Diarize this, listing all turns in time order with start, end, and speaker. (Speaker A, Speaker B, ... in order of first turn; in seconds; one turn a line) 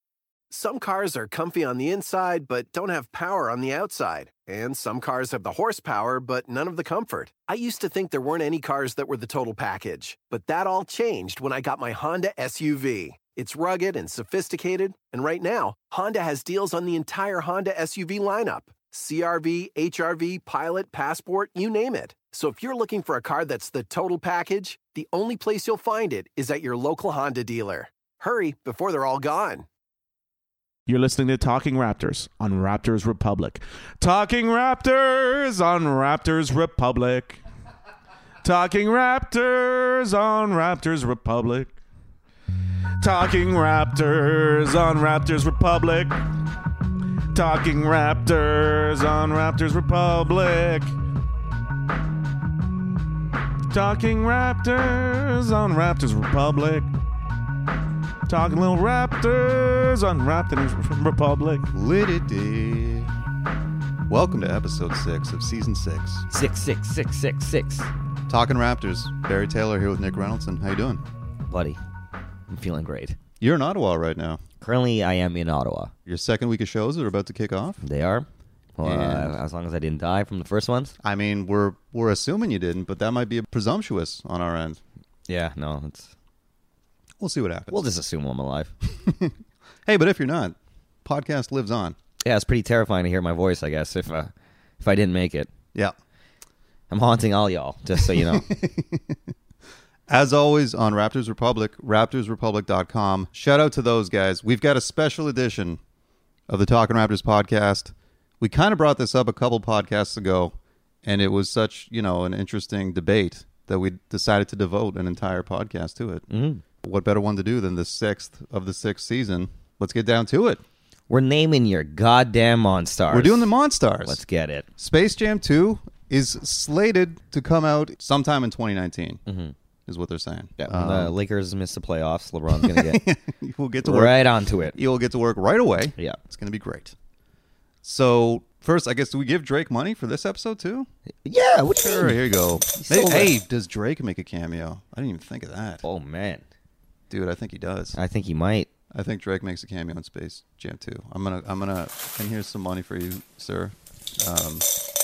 Speaker A: 0.5-29.6
Speaker B: 30.9-37.4
Speaker B: 38.4-41.7
Speaker B: 43.0-46.1
Speaker B: 47.3-50.9
Speaker B: 53.7-56.9
Speaker B: 58.3-61.7
Speaker C: 61.7-63.1
Speaker C: 64.1-66.2
Speaker D: 66.3-67.9
Speaker C: 68.3-71.0
Speaker D: 71.5-71.8
Speaker D: 72.5-73.2
Speaker C: 73.4-74.4
Speaker D: 74.6-75.9
Speaker C: 76.0-77.8
Speaker D: 77.8-80.9
Speaker C: 78.8-79.4
Speaker C: 81.0-84.8
Speaker D: 85.3-86.1
Speaker C: 87.2-87.8
Speaker D: 87.7-88.7
Speaker C: 88.9-92.0
Speaker D: 92.2-95.5
Speaker D: 96.9-98.5
Speaker C: 98.0-99.2
Speaker C: 100.1-105.8
Speaker C: 106.5-116.2
Speaker D: 116.3-116.6
Speaker C: 116.8-120.6
Speaker D: 121.1-123.5
Speaker C: 123.1-124.2
Speaker D: 124.0-124.7
Speaker C: 124.8-129.2
Speaker D: 129.2-129.5
Speaker C: 129.9-131.1
Speaker D: 130.6-133.0
Speaker C: 132.5-134.2
Speaker D: 133.8-134.8
Speaker C: 134.7-136.9
Speaker C: 137.8-140.9
Speaker D: 141.2-143.3
Speaker C: 141.8-145.8
Speaker D: 145.8-146.4
Speaker C: 147.1-148.0
Speaker D: 147.9-148.7
Speaker C: 148.9-154.7